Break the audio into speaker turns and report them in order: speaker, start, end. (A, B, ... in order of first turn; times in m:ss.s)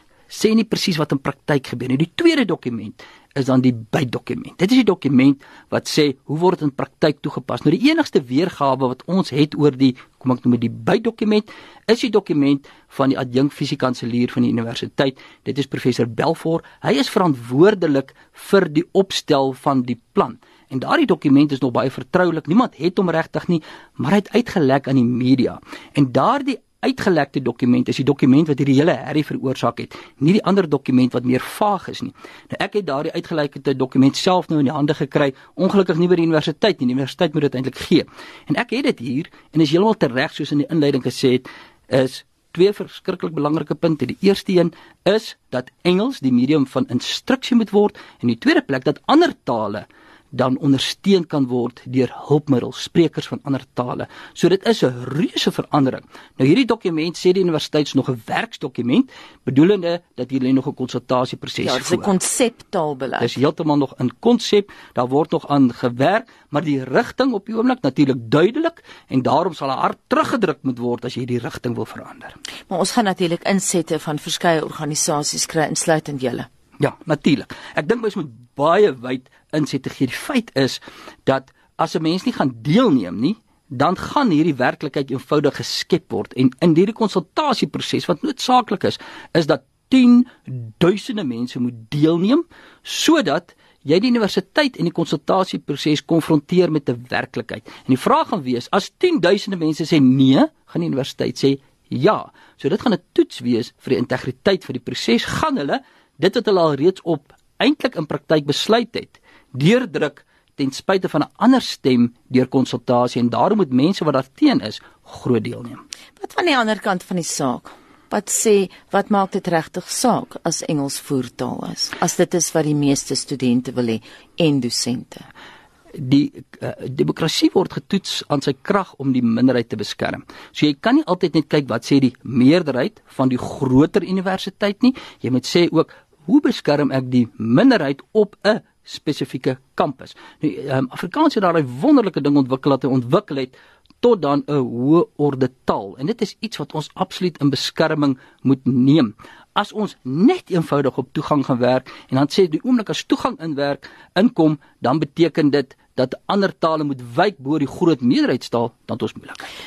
0:00.3-1:02.1 A
1:01.6-1:03.4 B
1:03.2-1:12.3 A
1:12.7-1:16.5 B
1:16.8-1:55.8 A
1:56.2-2:05.3 B
2:06.0-2:39.4 A